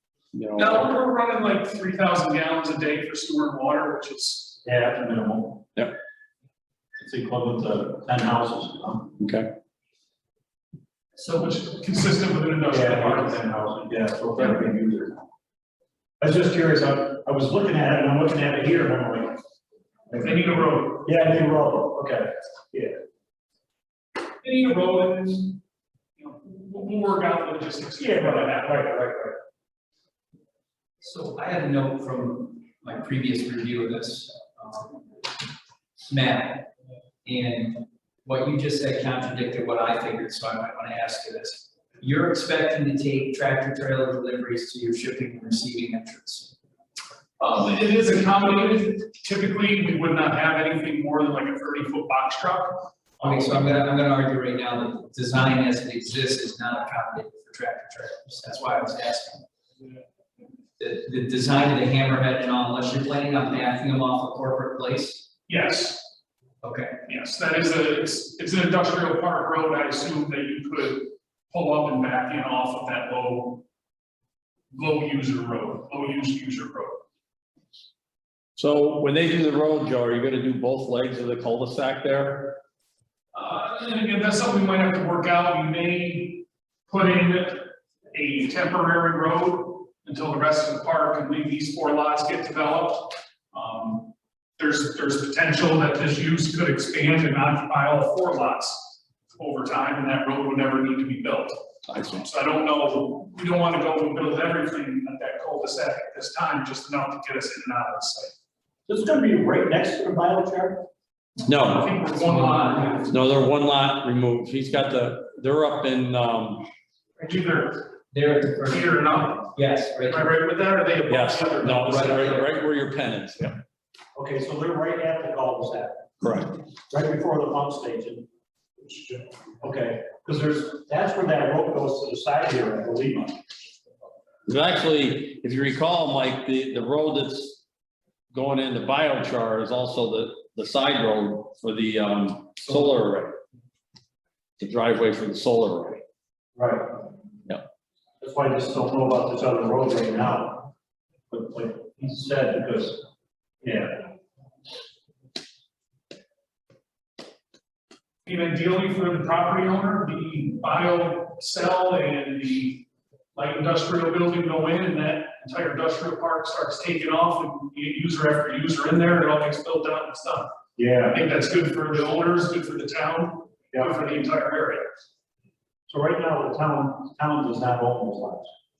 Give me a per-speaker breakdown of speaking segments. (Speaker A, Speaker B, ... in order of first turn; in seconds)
Speaker A: 0.3-0.9, 9.2-9.5, 78.6-82.6, 101.9-102.2, 111.5-111.9, 113.1-116.7, 121.1-123.6, 126.2-126.6, 134.5-137.6, 138.3-143.4, 144.6-146.0
Speaker B: 0.6-4.6, 11.2-13.4, 20.2-21.1, 24.4-25.6, 26.2-28.8, 47.4-53.8, 65.5-66.1, 67.0-73.7, 74.7-77.0, 83.3-108.4, 111.6-113.1, 117.2-117.9, 118.7-119.5, 120.1-122.3, 158.2-170.5, 171.1-174.8
Speaker C: 4.6-5.6, 7.0-9.1, 12.7-15.2, 16.2-19.4, 20.1-20.4, 20.9-22.9, 28.0-29.4, 108.9-110.8, 124.2-126.1, 126.9-128.3, 128.8-133.4, 146.6-147.0, 148.2-150.7, 151.3-153.0, 153.6-154.1, 170.8-171.2, 175.9-178.5
Speaker D: 31.0-35.1, 36.1-36.7, 37.2-46.6, 53.2-59.4, 60.8-65.3, 66.6-67.0, 112.2-113.1, 118.1-120.3, 121.8-122.4